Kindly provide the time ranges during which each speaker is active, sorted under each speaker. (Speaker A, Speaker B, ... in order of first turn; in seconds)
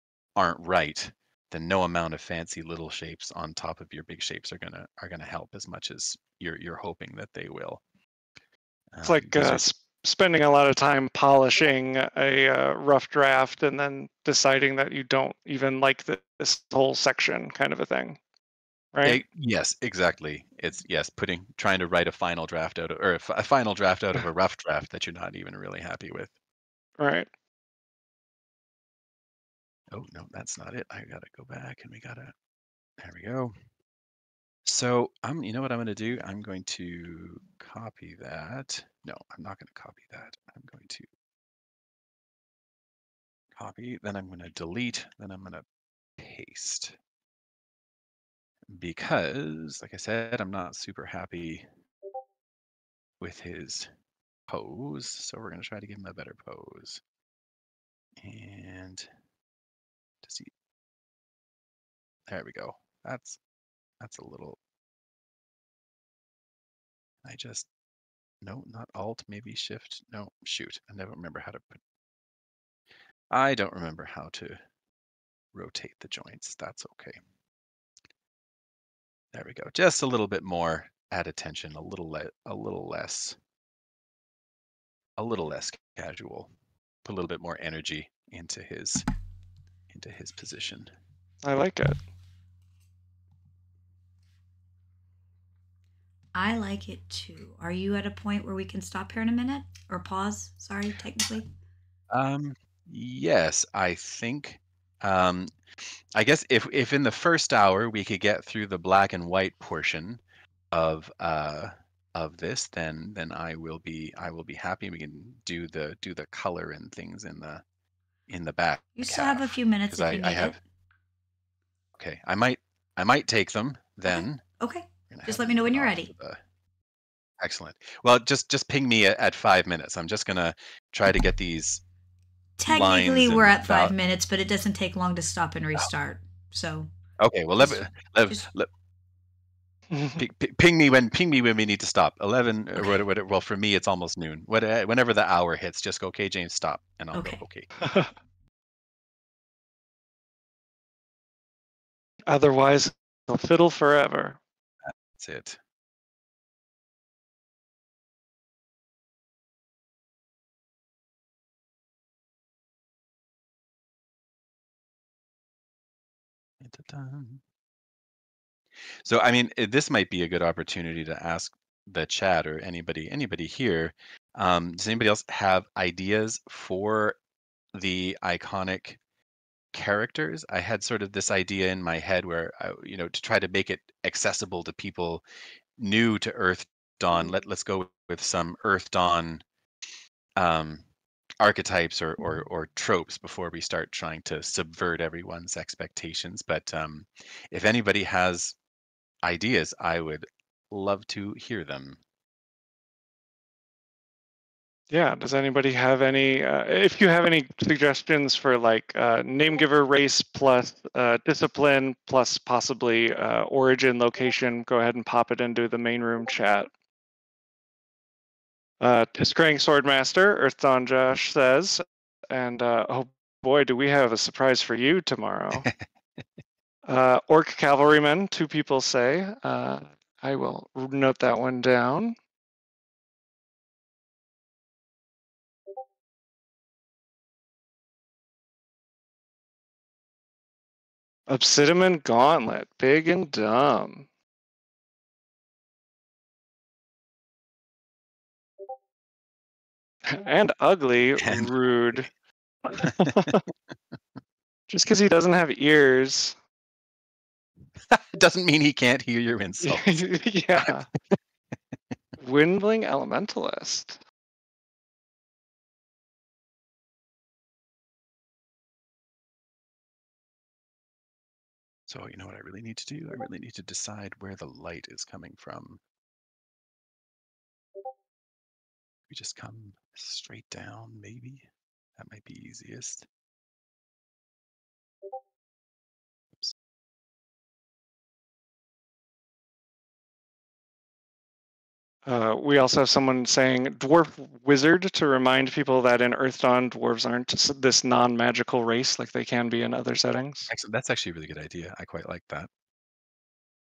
Speaker A: 0.3-7.8, 8.9-9.6, 19.0-26.3, 29.9-32.3, 33.0-33.5, 34.6-41.1, 43.5-45.6, 46.2-47.0, 48.7-51.6, 53.2-53.9, 54.5-57.0, 58.2-59.1, 60.2-60.5, 62.3-63.4, 64.0-64.6, 67.2-67.7, 68.4-71.8, 73.3-74.6, 75.5-77.2, 79.3-83.4, 85.2-86.5, 87.0-89.0, 89.9-90.9, 102.1-105.5, 106.1-110.2, 110.7-117.6, 118.3-120.6, 122.0-124.4, 125.1-126.4, 127.4-131.8, 132.7-133.9, 137.2-138.7, 140.2-147.7, 154.8-155.6, 166.6-167.4, 169.0-177.2, 177.7-179.0, 179.7-185.2, 185.8-189.4, 190.4-190.8, 191.4-198.6, 199.2-202.0, 225.6-225.8, 251.2-251.5, 252.8-253.2, 257.8-260.1, 271.9-275.8, 279.1-281.4, 282.0-283.1, 300.5-302.5
Speaker B: 9.0-18.2, 18.9-19.2, 27.0-27.3, 91.4-92.0, 139.9-140.2, 147.8-148.1, 152.3-154.4, 204.9-216.7, 218.8-225.7, 226.9-232.2, 241.3-244.1, 250.1-252.1, 252.6-253.4, 254.7-256.4, 259.6-260.9, 262.2-264.0, 292.1-300.5
Speaker C: 96.3-101.5, 119.0-120.6, 124.1-126.1, 132.6-136.9, 137.6-138.5, 147.1-147.4